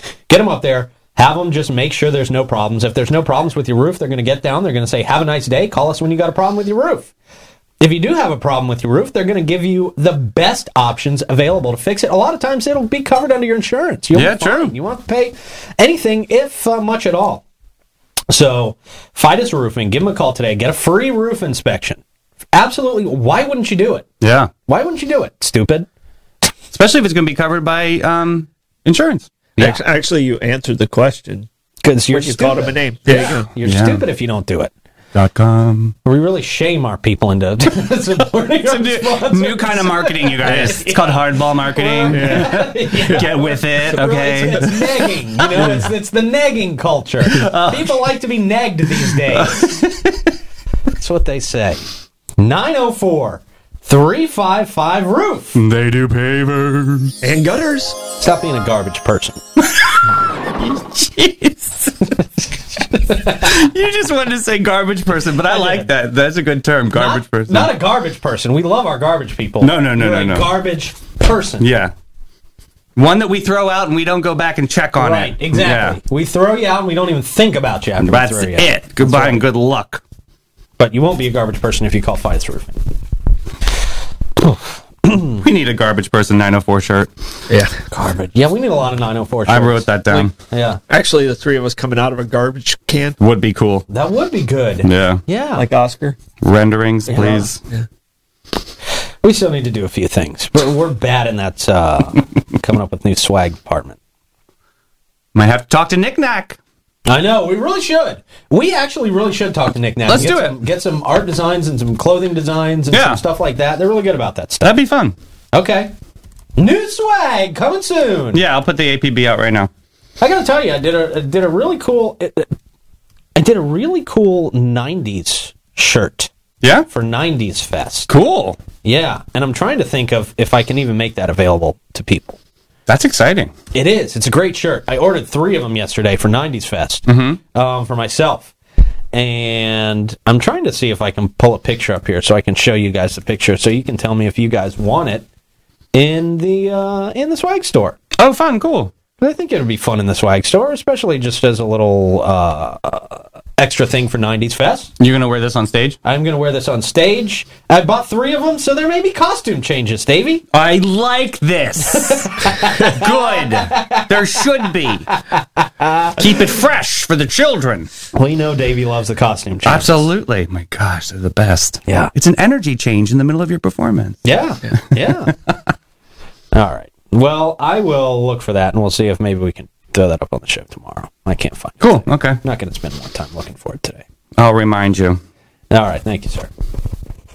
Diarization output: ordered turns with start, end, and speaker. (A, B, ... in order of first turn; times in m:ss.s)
0:00.3-0:07.1 A
0:07.8-0:17.4 A
0:14.1-0:14.7 B
0:18.3-0:22.0 A
0:22.5-0:24.1 A
0:24.2-0:24.5 B
0:24.7-0:25.9 A
0:26.7-0:29.6 B
0:29.6-0:31.5 C
0:31.8-0:34.7 A
0:32.1-0:33.5 C
0:33.6-0:34.0 B
0:35.1-0:36.0 B
0:36.0-0:49.8 A
0:38.6-0:45.9 B
0:40.4-0:40.8 C
0:42.1-0:43.3 C
0:47.3-0:48.0 B
0:49.0-0:50.3 B
0:50.9-0:51.8 A
0:52.4-0:55.6 A
0:55.6-0:57.2 B
0:57.2-0:58.0 C
0:58.2-0:59.4 A
0:59.6-1:02.1 B
1:03.0-1:03.5 A
1:03.1-1:07.7 B
1:05.4-1:05.9 A
1:06.9-1:11.7 A
1:09.6-1:10.5 B
1:11.6-1:11.9 B
1:13.0-1:16.0 B
1:15.0-1:19.4 A
1:18.0-1:20.0 B
1:20.8-1:22.8 A
1:24.4-1:25.4 A
1:25.4-1:27.1 B
1:27.5-1:27.7 C
1:27.9-1:30.8 A
1:29.5-1:30.3 B
1:30.9-1:33.2 C
1:33.2-1:33.9 B
1:33.9-1:35.6 A
1:34.8-1:35.2 B
1:35.6-1:36.2 C
1:36.4-1:37.6 B
1:37.1-1:37.5 A
1:37.1-1:37.8 C
1:39.2-1:44.0 A
1:45.3-1:46.6 B
1:47.1-1:54.7 A
1:50.1-1:50.6 B
1:52.9-1:53.2 B
1:54.6-1:55.2 B
1:55.5-1:55.9 A
1:56.6-1:58.4 A
1:58.3-1:59.7 B
2:00.2-2:02.5 A
2:03.4-2:06.3 A
2:06.6-2:06.9 B
2:06.9-2:08.1 A
2:08.1-2:08.6 B
2:08.8-2:12.4 A
2:12.9-2:13.5 B
2:13.7-2:18.5 A
2:17.1-2:17.4 B
2:19.1-2:25.3 A
2:25.9-2:28.0 A
2:28.2-2:28.9 B
2:29.2-2:34.9 A
2:35.0-2:36.0 B
2:36.0-2:40.4 A
2:40.5-2:45.1 B
2:42.3-2:44.4 A
2:45.1-2:46.2 A
2:46.1-2:47.9 B
2:48.1-2:50.0 A
2:49.6-2:55.6 B
2:54.2-2:55.3 A
2:56.5-3:04.0 A
3:01.8-3:02.4 B
3:04.4-3:05.2 B
3:05.7-3:06.5 A